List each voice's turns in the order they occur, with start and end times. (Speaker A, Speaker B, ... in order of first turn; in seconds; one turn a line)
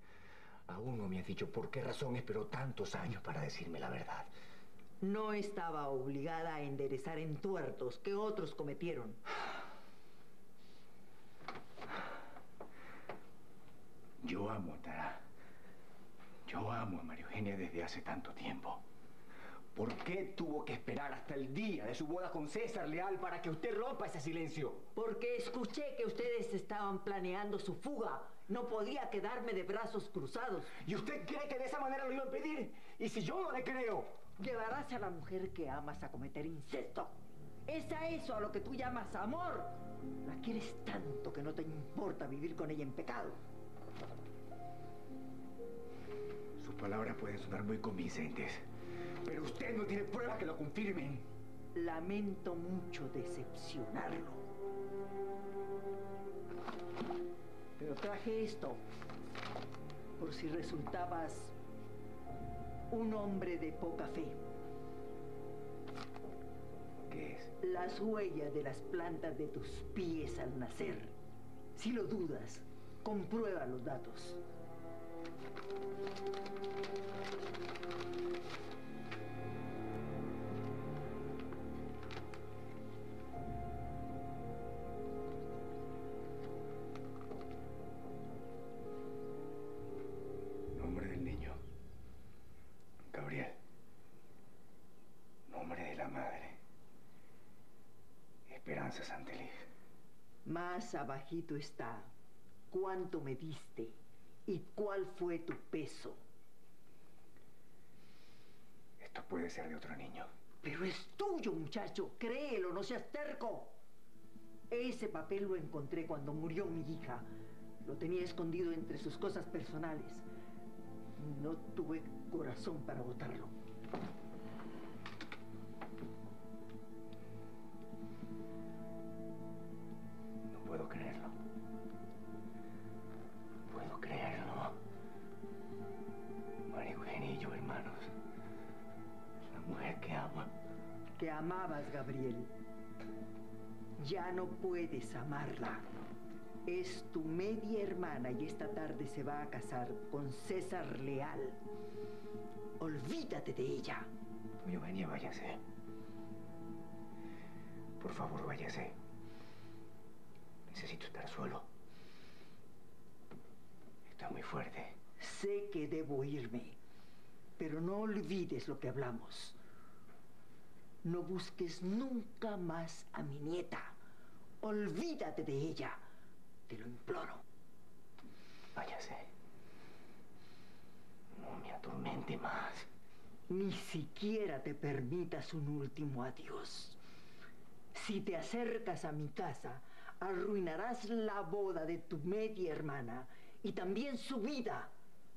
Speaker A: 0.7-4.3
Speaker B: 5.0-9.2
Speaker A: 14.2-15.2
Speaker A: 16.5-18.8
Speaker A: 19.8-24.8
Speaker B: 25.0-30.8
Speaker A: 30.8-34.1
Speaker B: 34.4-43.4
Speaker A: 46.6-48.6
Speaker A: 49.2-51.2
Speaker B: 51.8-54.5
Speaker B: 57.8-58.8
Speaker B: 60.2-61.5
Speaker B: 62.9-64.4
Speaker A: 67.1-67.5
Speaker B: 67.6-71.2
Speaker B: 71.8-74.4
Speaker A: 90.8-91.6
Speaker A: 93.1-93.6
Speaker A: 95.5-96.6
Speaker A: 98.5-99.6
Speaker B: 100.5-102.1
Speaker B: 102.7-104.0
Speaker B: 104.5-106.2
Speaker A: 109.0-110.3
Speaker B: 110.6-113.8
Speaker B: 114.7-117.3
Speaker B: 117.8-120.3
Speaker B: 121.2-123.5
Speaker A: 130.5-131.4
Speaker A: 133.7-134.8
Speaker A: 136.7-138.1
Speaker A: 139.5-140.5
Speaker B: 141.2-142.5
Speaker B: 144.0-145.9
Speaker B: 146.7-151.6
Speaker B: 152.8-154.1
Speaker A: 154.6-155.6
Speaker A: 158.0-159.0
Speaker A: 160.7-161.7
Speaker A: 164.1-165.0
Speaker B: 165.2-166.8
Speaker B: 167.6-169.6
Speaker B: 171.0-174.0
Speaker B: 174.6-176.0
Speaker B: 176.7-177.4
Speaker A: 178.7-179.3
Speaker A: 181.3-182.9
Speaker B: 183.5-187.0
Speaker B: 187.9-194.9